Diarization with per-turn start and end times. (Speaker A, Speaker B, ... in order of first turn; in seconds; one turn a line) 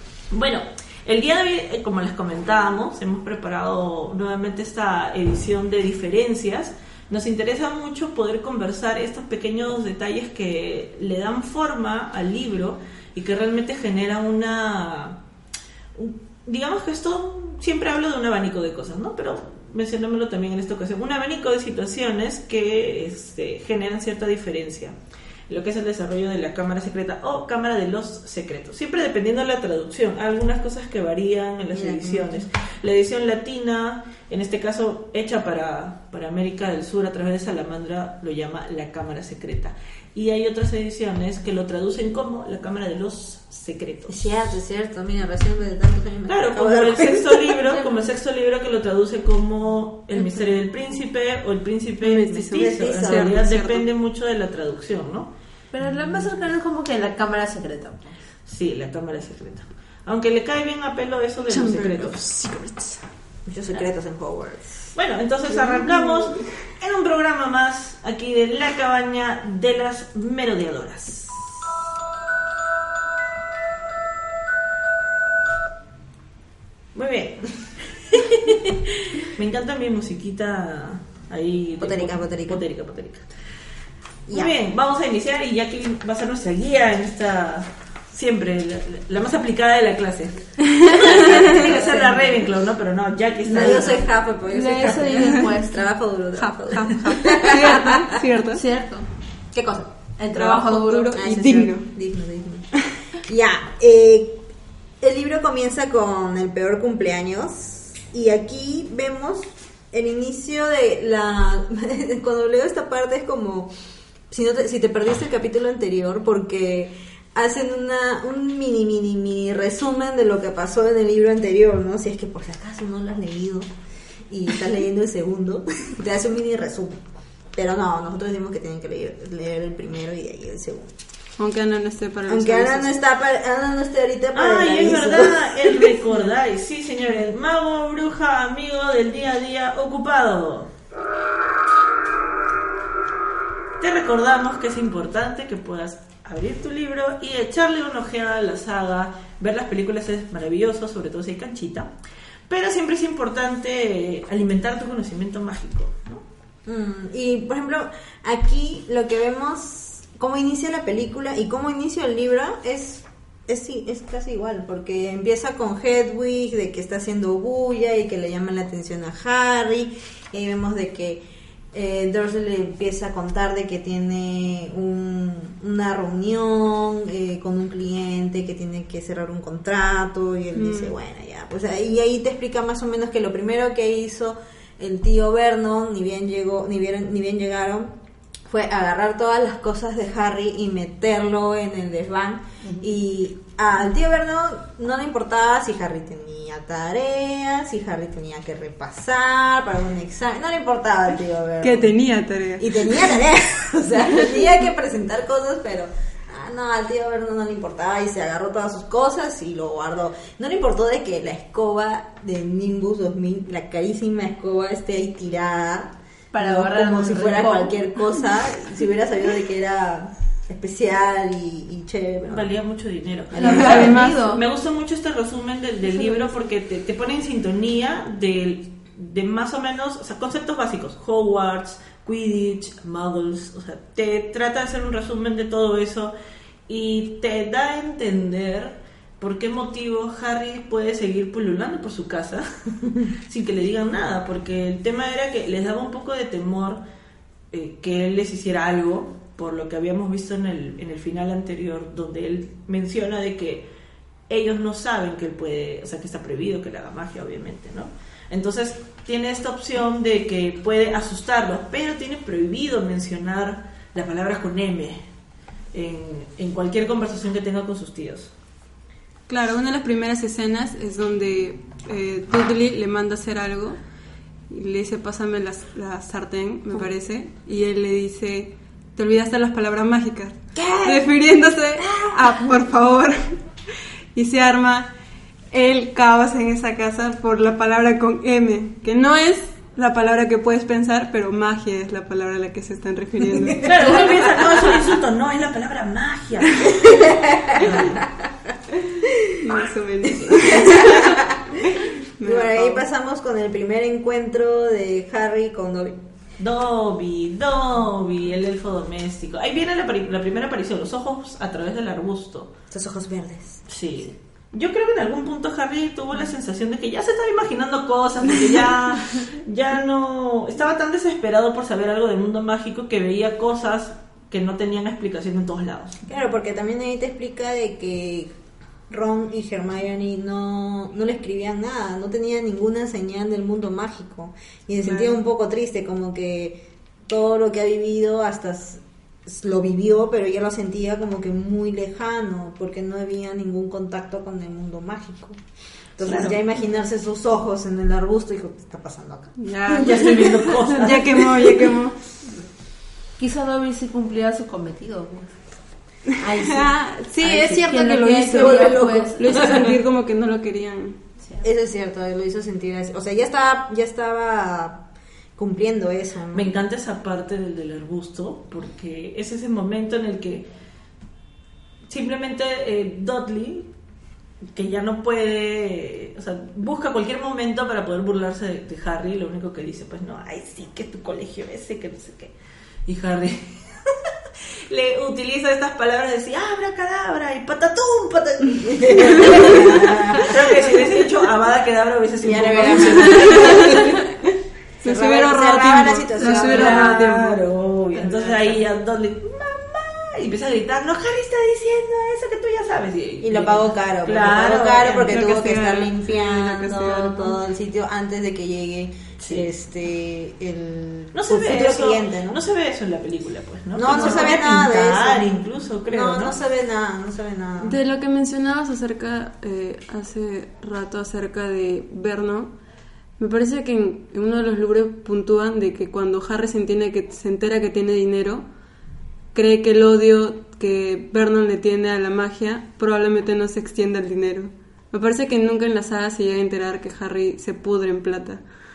Speaker A: 0.3-15.2
Speaker A: 15.9-24.9
Speaker A: 25.5-44.4
Speaker B: 31.7-32.5
Speaker B: 44.1-47.7
Speaker A: 46.3-55.3
Speaker C: 52.0-53.9
Speaker B: 52.5-53.4
Speaker D: 55.7-58.1
Speaker A: 58.5-62.2
Speaker C: 61.5-63.1
Speaker B: 63.5-64.9
Speaker A: 65.0-71.5
Speaker C: 65.5-66.5
Speaker A: 76.9-83.3
Speaker B: 81.8-82.6
Speaker B: 84.3-84.5
Speaker A: 84.3-94.0
Speaker B: 91.0-92.5
Speaker D: 93.5-95.9
Speaker B: 93.5-98.2
Speaker C: 96.4-98.6
Speaker D: 97.3-99.1
Speaker B: 99.5-99.9
Speaker D: 100.2-101.3
Speaker C: 100.3-101.9
Speaker B: 101.2-102.7
Speaker B: 103.3-104.4
Speaker B: 105.0-113.7
Speaker B: 114.3-123.7
Speaker B: 124.3-127.0
Speaker B: 127.5-130.9
Speaker C: 131.4-133.0
Speaker B: 132.3-136.0
Speaker A: 134.3-140.7
Speaker A: 143.8-151.9
Speaker A: 152.5-156.2
Speaker B: 156.7-187.9
Speaker C: 180.5-180.9
Speaker B: 188.5-201.9
Speaker C: 201.6-203.2
Speaker B: 202.6-222.5
Speaker D: 216.3-217.9
Speaker A: 222.2-236.1
Speaker C: 223.3-224.2
Speaker B: 223.4-224.0
Speaker D: 223.4-224.4
Speaker D: 225.9-226.3
Speaker A: 236.7-246.8
Speaker A: 247.5-253.7
Speaker A: 254.3-265.0
Speaker A: 265.7-268.3
Speaker C: 269.3-273.8
Speaker C: 274.5-283.4
Speaker B: 280.6-281.1
Speaker B: 281.8-282.4
Speaker C: 284.1-284.9
Speaker C: 285.5-294.2
Speaker B: 293.4-294.0
Speaker A: 293.6-298.1
Speaker B: 297.5-297.8
Speaker C: 299.4-302.8
Speaker A: 300.4-301.2
Speaker B: 300.5-301.4
Speaker B: 302.2-306.0
Speaker A: 306.4-312.5
Speaker B: 312.7-313.6
Speaker A: 313.7-326.0
Speaker B: 326.1-328.3
Speaker B: 328.9-345.4
Speaker B: 346.0-349.4
Speaker A: 346.0-346.4
Speaker C: 349.4-352.0
Speaker A: 349.7-351.2
Speaker D: 353.2-355.4
Speaker D: 356.1-356.7
Speaker C: 356.5-361.0
Speaker B: 357.2-359.8
Speaker D: 357.3-359.6
Speaker B: 361.4-366.5
Speaker A: 366.3-370.5
Speaker A: 371.9-373.7
Speaker A: 374.5-382.3
Speaker A: 382.9-383.7
Speaker A: 384.7-394.0
Speaker B: 388.6-390.8
Speaker B: 392.2-394.0
Speaker C: 392.6-394.0
Speaker C: 394.8-398.6
Speaker B: 394.8-397.0
Speaker A: 396.2-405.1
Speaker B: 403.2-412.4
Speaker C: 405.1-407.4
Speaker A: 411.1-416.4
Speaker B: 413.7-415.3
Speaker C: 413.9-414.3
Speaker B: 415.9-417.8
Speaker C: 417.6-422.5
Speaker C: 423.2-428.4
Speaker C: 429.3-438.4